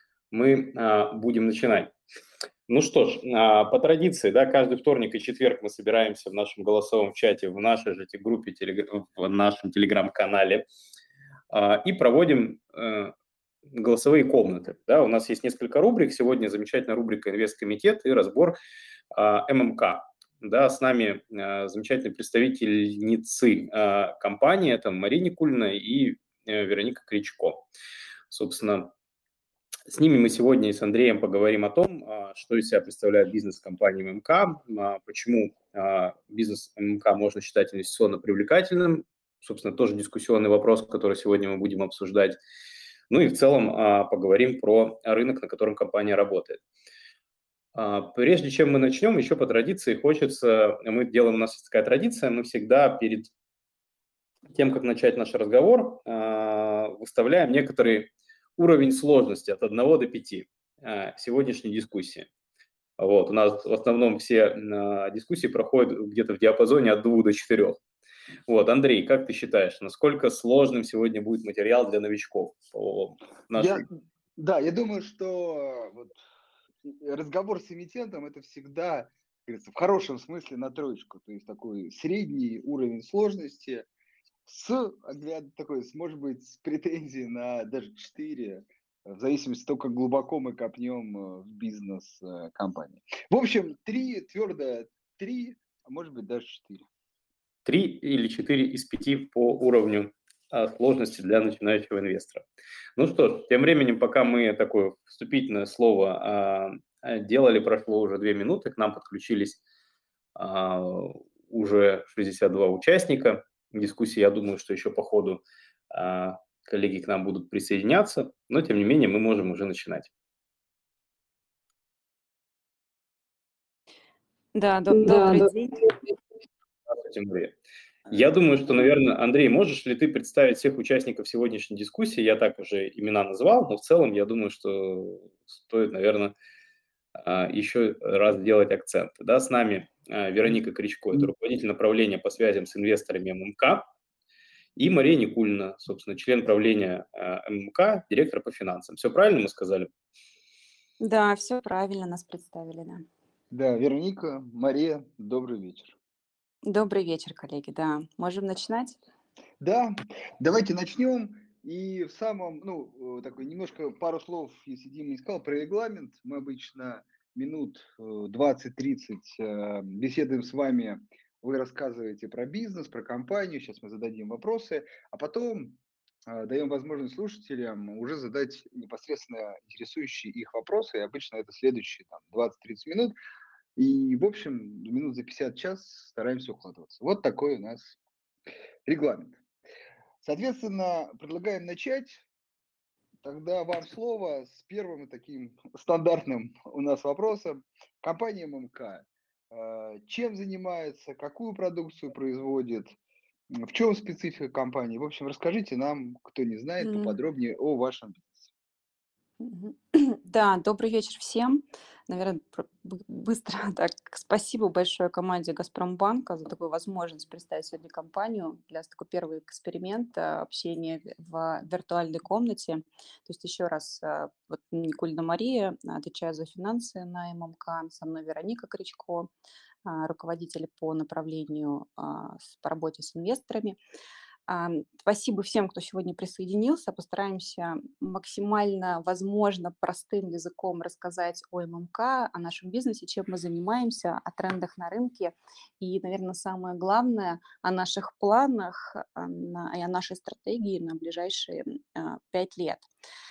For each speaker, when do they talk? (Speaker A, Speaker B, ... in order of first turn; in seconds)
Speaker A: 0.3-1.9, 2.7-10.7, 11.5-13.1, 13.7-18.6, 19.1-27.6, 28.3-28.9, 29.9-42.4, 43.1-46.6, 47.8-53.3, 54.5-62.3, 63.0-67.8, 68.5-73.8, 97.7-102.5, 103.0-109.6, 110.4-120.1, 126.9-127.5, 128.1-136.3, 137.2-143.8, 144.8-149.9
Speaker B: 73.6-73.8, 74.4-76.2, 76.8-83.9, 84.5-96.8, 153.5-156.0, 159.6-183.2, 183.8-188.0, 188.9-189.4, 190.2-192.2, 193.2-203.0, 203.5-208.5
Speaker C: 124.5-125.9, 151.0-153.0, 156.7-159.0, 206.8-207.2, 209.4-229.3, 229.8-233.8, 234.5-252.9